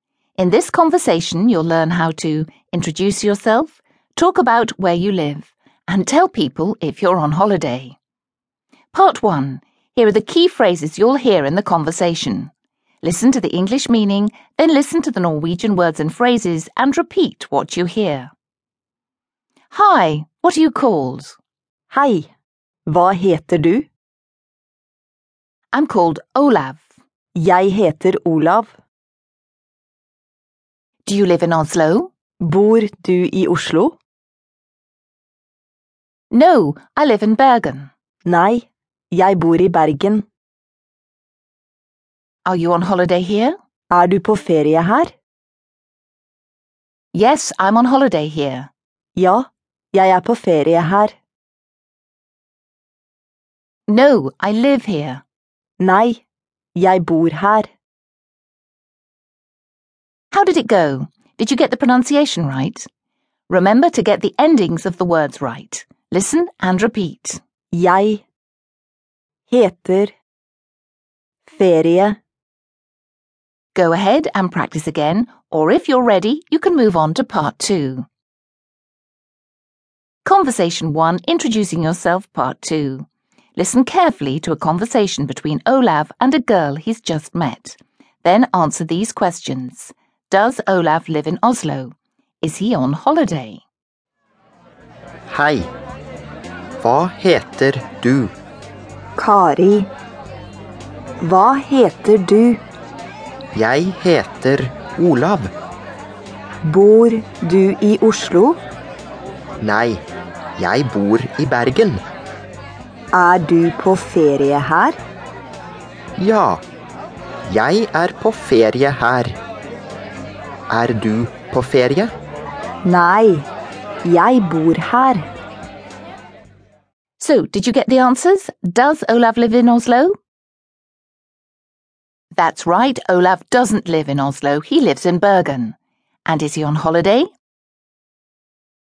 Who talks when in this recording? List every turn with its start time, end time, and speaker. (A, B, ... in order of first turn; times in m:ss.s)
0:00.4-0:08.0 A
0:08.9-0:12.5 A
0:13.0-0:18.3 A
0:19.7-0:21.4 A
0:21.9-0:22.3 B
0:22.9-0:23.9 B
0:25.7-0:26.8 A
0:27.4-0:28.7 B
0:31.0-0:32.1 A
0:32.4-0:34.0 B
0:36.3-0:37.9 A
0:38.2-0:40.2 B
0:42.4-0:43.6 A
0:43.9-0:45.1 B
0:47.1-0:48.7 A
0:49.2-0:51.2 B
0:53.9-0:55.2 A
0:55.8-0:56.2 B
0:56.8-0:57.7 B
1:00.3-1:02.9 A
1:03.5-1:07.4 A
1:07.7-1:08.2 B
1:09.5-1:10.1 B
1:11.5-1:12.2 B
1:13.7-1:18.0 A
1:20.2-1:33.6 A
1:35.3-1:35.7 C
1:36.8-1:38.3 C
1:39.2-1:39.9 B
1:41.2-1:42.6 B
1:43.5-1:45.5 C
1:46.6-1:48.6 B
1:49.6-1:50.0 C
1:50.6-1:52.0 C
1:53.1-1:55.0 B
1:56.2-1:56.6 C
1:57.5-1:59.3 C
2:00.7-2:02.1 C
2:02.8-2:03.4 B
2:04.0-2:05.2 B
2:07.2-2:10.2 A
2:12.3-2:17.3 A